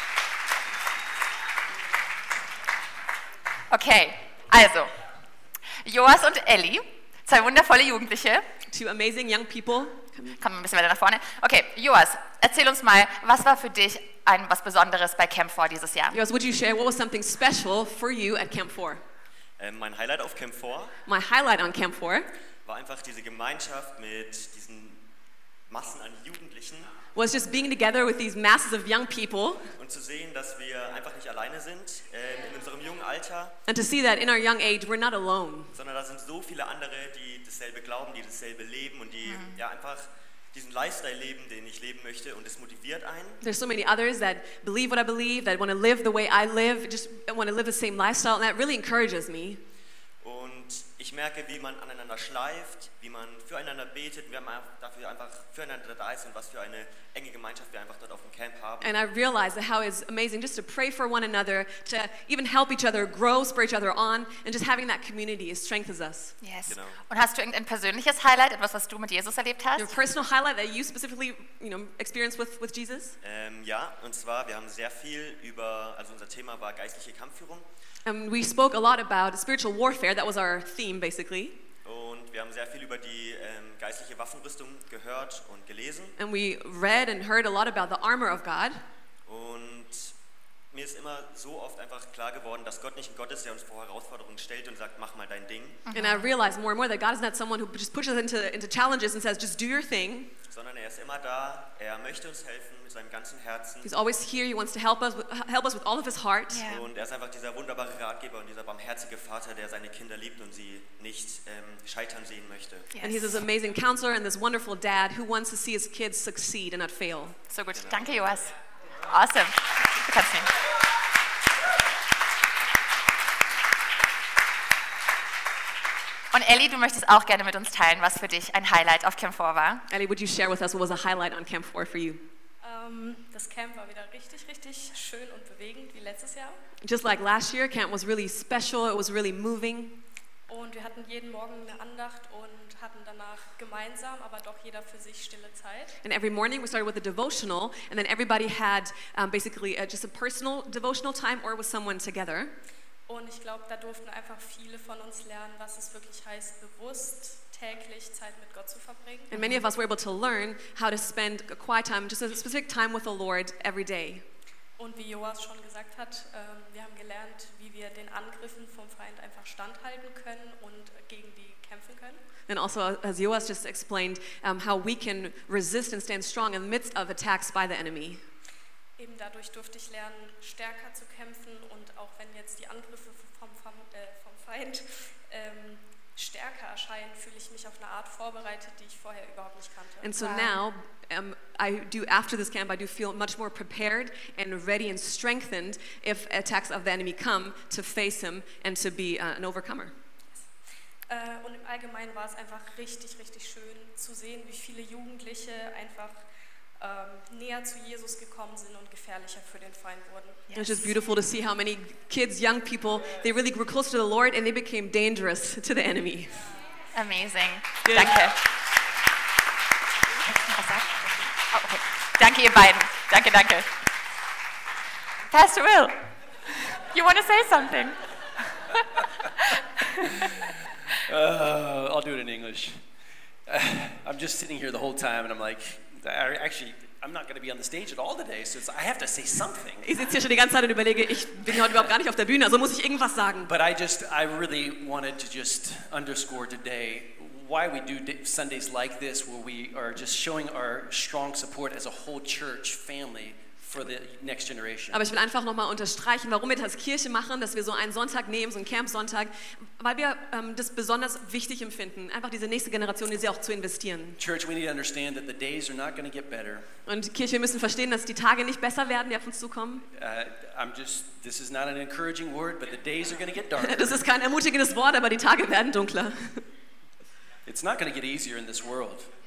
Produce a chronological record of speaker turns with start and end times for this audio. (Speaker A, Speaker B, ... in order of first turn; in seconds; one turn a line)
Speaker A: 3.7-4.9
Speaker A: 5.8-8.5
Speaker B: 8.7-10.4
Speaker A: 10.4-16.2
Speaker B: 16.1-19.0
Speaker C: 19.6-20.9
Speaker B: 21.1-22.3
Speaker C: 22.6-25.0
Speaker C: 25.7-26.9
Speaker B: 27.1-29.7
Speaker C: 29.8-33.5
Speaker B: 33.7-35.7
Speaker C: 35.7-43.4
Speaker B: 43.4-49.6
Speaker C: 50.2-59.0
Speaker B: 58.8-66.3
Speaker A: 66.4-69.9
Speaker C: 66.7-67.0
Speaker B: 69.8-73.2
Speaker C: 73.2-77.7
Speaker B: 78.1-81.6
Speaker C: 81.8-86.2
Speaker B: 86.2-88.8
Speaker C: 89.3-90.1
Speaker C: 90.7-95.9
Speaker A: 95.9-96.3
Speaker B: 95.9-100.3
Speaker C: 100.5-103.9
Speaker B: 103.8-106.6
Speaker A: 106.5-106.9
Speaker C: 106.6-112.9
Speaker A: 113.0-113.2
Speaker B: 113.0-117.4
Speaker A: 117.5-118.5
Speaker C: 117.8-118.1
Speaker A: 119.1-120.5
Speaker A: 126.3-129.8
Speaker B: 129.9-132.2
Speaker D: 132.6-136.6
Speaker B: 136.8-139.9
Speaker D: 140.5-146.0
Speaker B: 146.0-152.5
Speaker D: 153.1-159.3
Speaker B: 159.3-164.2
Speaker D: 164.8-172.2
Speaker B: 172.5-178.2
Speaker D: 179.0-190.1
Speaker B: 190.0-199.9
Speaker A: 190.2-190.5
Speaker D: 201.1-206.2
Speaker D: 206.8-210.5
Speaker A: 210.5-210.8
Speaker B: 210.5-216.4
Speaker A: 216.9-218.4
Speaker B: 217.8-218.2
Speaker A: 220.4-223.7
Speaker A: 225.3-226.0
Speaker A: 226.9-227.9
Speaker E: 230.2-232.8
Speaker E: 233.5-239.9
Speaker B: 239.8-243.5
Speaker E: 243.5-255.0
Speaker B: 254.9-264.2
Speaker E: 264.2-266.6
Speaker B: 266.9-269.9
Speaker E: 269.9-274.0
Speaker B: 273.6-276.4
Speaker E: 277.4-279.1